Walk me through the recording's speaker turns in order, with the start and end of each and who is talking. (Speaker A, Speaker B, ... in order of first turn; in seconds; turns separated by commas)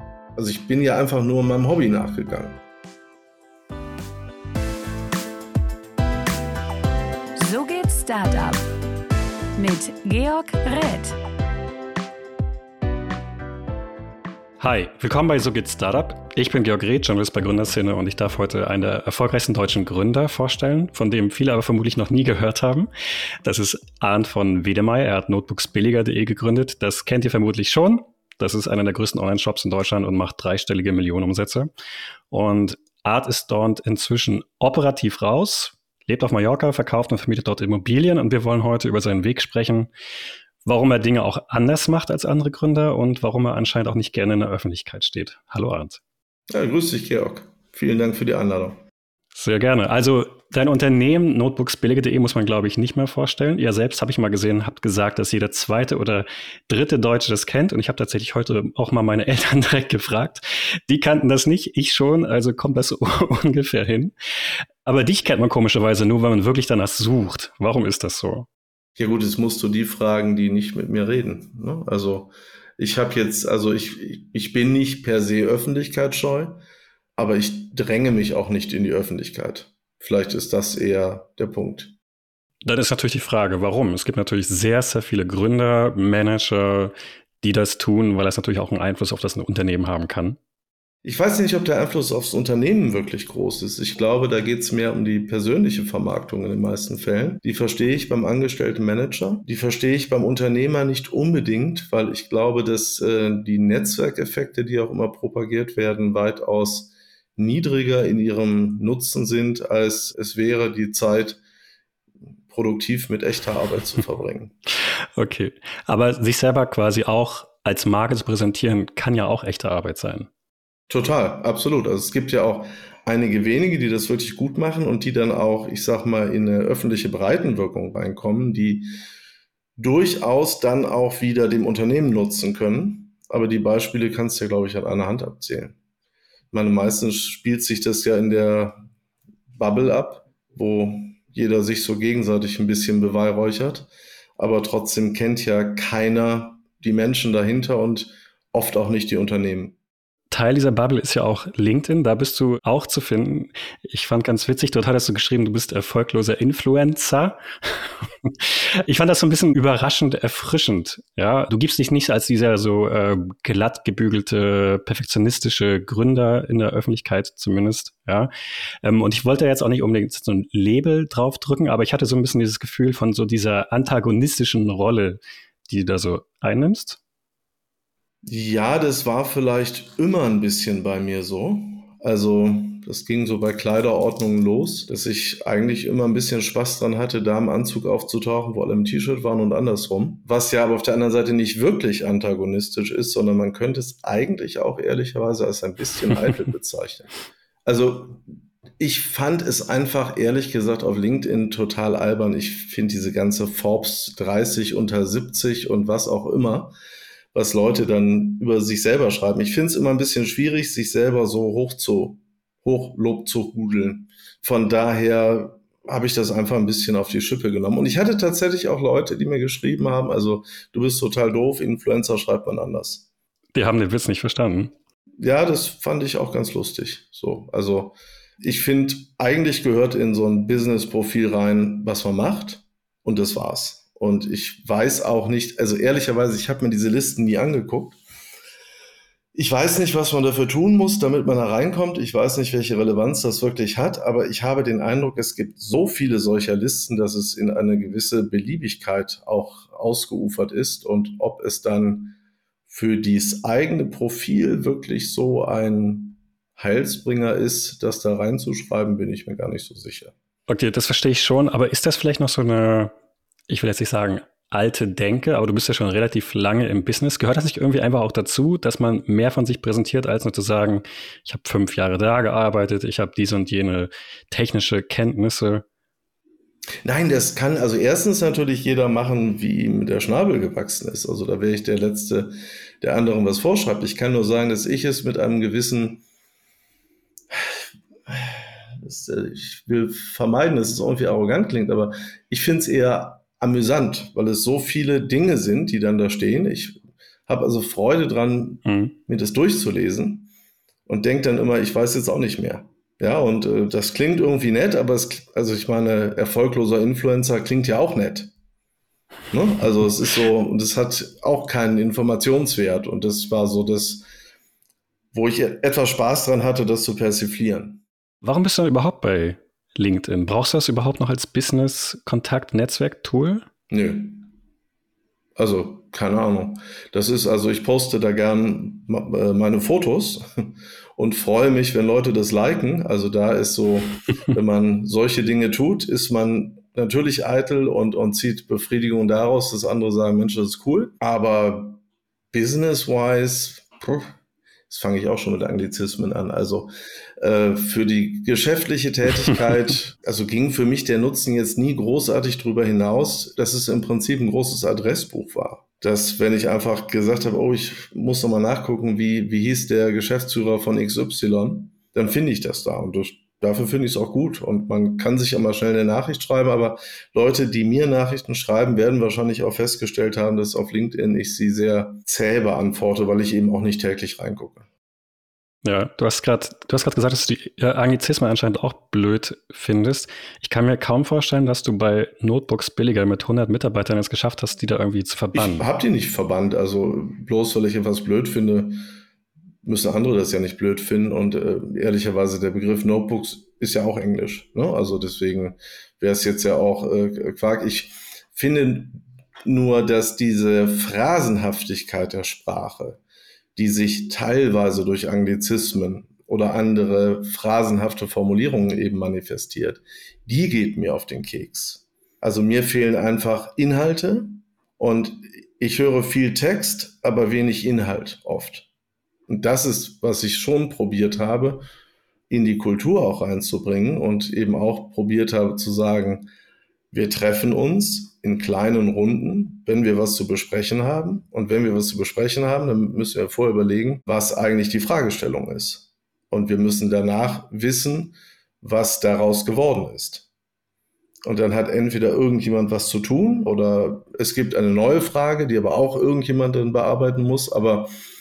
Speaker A: 0.3-2.6, Speaker B: 7.3-8.6, Speaker B: 9.6-11.2, Speaker C: 14.6-22.9, Speaker C: 23.4-31.7, Speaker C: 32.3-39.9, Speaker C: 40.6-46.0, Speaker A: 46.5-48.8, Speaker C: 49.3-64.1, Speaker C: 64.8-68.5, Speaker A: 69.0-76.6, Speaker A: 77.2-82.0, Speaker C: 82.6-90.4, Speaker A: 91.0-111.4, Speaker A: 112.5-114.5, Speaker C: 115.1-120.3, Speaker A: 120.9-128.9, Speaker A: 129.8-135.8, Speaker A: 136.5-138.8, Speaker A: 139.5-149.8, Speaker C: 150.3-168.3, Speaker C: 168.8-177.0, Speaker A: 178.2-197.1, Speaker A: 197.7-198.2, Speaker A: 198.8-206.7, Speaker A: 207.3-223.1, Speaker C: 223.5-224.7, Speaker A: 225.2-238.0, Speaker A: 239.3-252.2, Speaker A: 252.7-260.1, Speaker C: 260.5-262.9, Speaker C: 263.5-275.6, Speaker A: 276.8-286.0, Speaker A: 288.1-300.3, Speaker C: 298.6-298.9, Speaker A: 300.9-308.3, Speaker A: 309.3-314.0, Speaker A: 315.1-317.8, Speaker C: 318.2-323.4, Speaker A: 323.7-324.2, Speaker A: 325.4-341.8, Speaker A: 342.3-344.1, Speaker A: 344.7-374.6, Speaker C: 375.6-385.7, Speaker A: 385.3-388.8, Speaker A: 389.6-403.0, Speaker A: 403.6-418.7, Speaker A: 419.3-421.6, Speaker A: 422.3-426.3, Speaker A: 426.9-440.3, Speaker A: 441.2-447.9